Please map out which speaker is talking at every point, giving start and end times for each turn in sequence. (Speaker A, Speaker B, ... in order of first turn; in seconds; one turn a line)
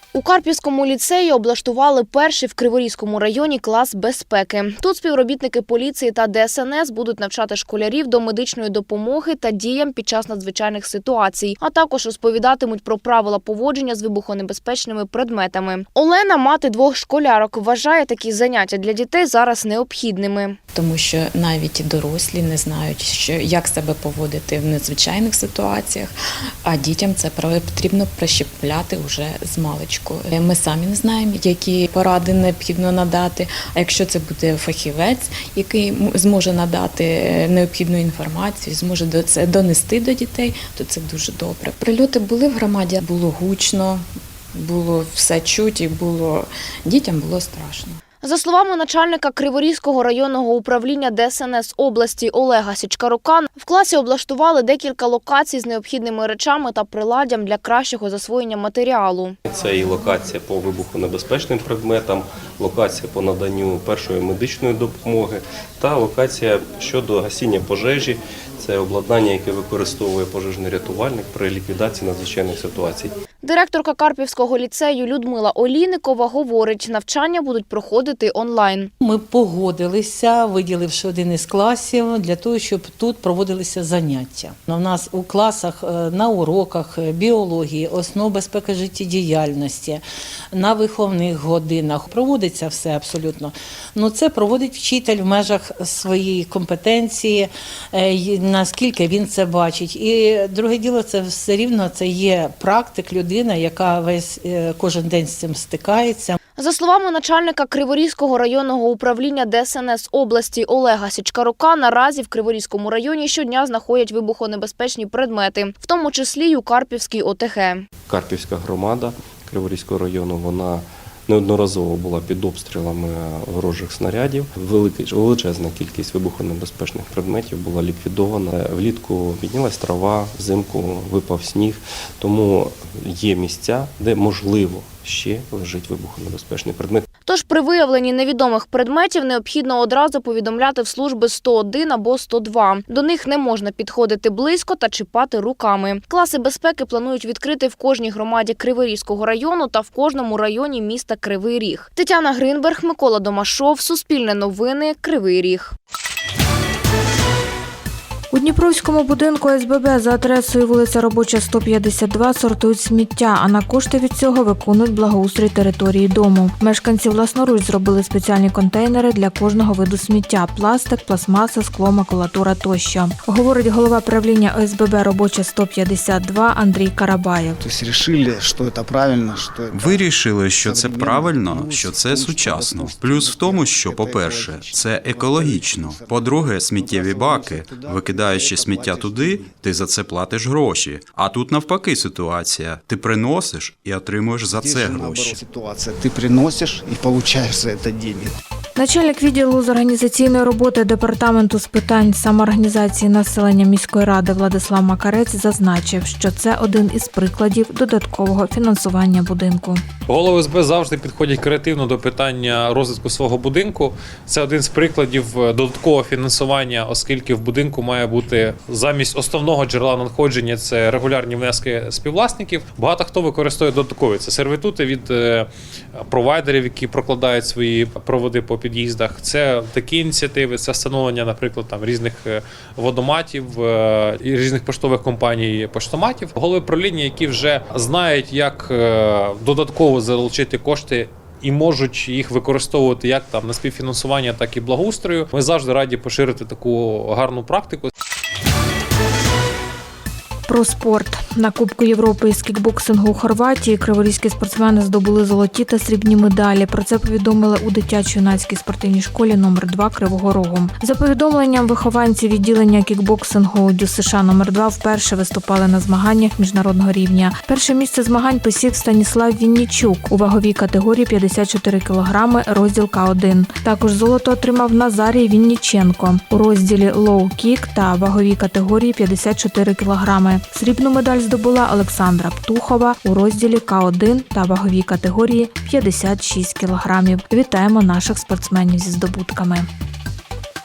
Speaker A: 0.1-20.6
Speaker B: 20.7-48.0
Speaker A: 48.2-59.4
Speaker C: 59.5-73.2
Speaker A: 73.4-78.9
Speaker D: 79.0-106.4
Speaker A: 106.6-117.8
Speaker C: 118.1-137.1
Speaker A: 137.3-155.7
Speaker E: 158.3-177.6
Speaker F: 177.6-180.1
Speaker G: 179.7-195.4
Speaker F: 180.6-189.5
Speaker F: 194.5-198.3
Speaker E: 198.8-209.8
Speaker H: 210.1-225.5
Speaker H: 226.0-247.9
Speaker E: 250.5-289.7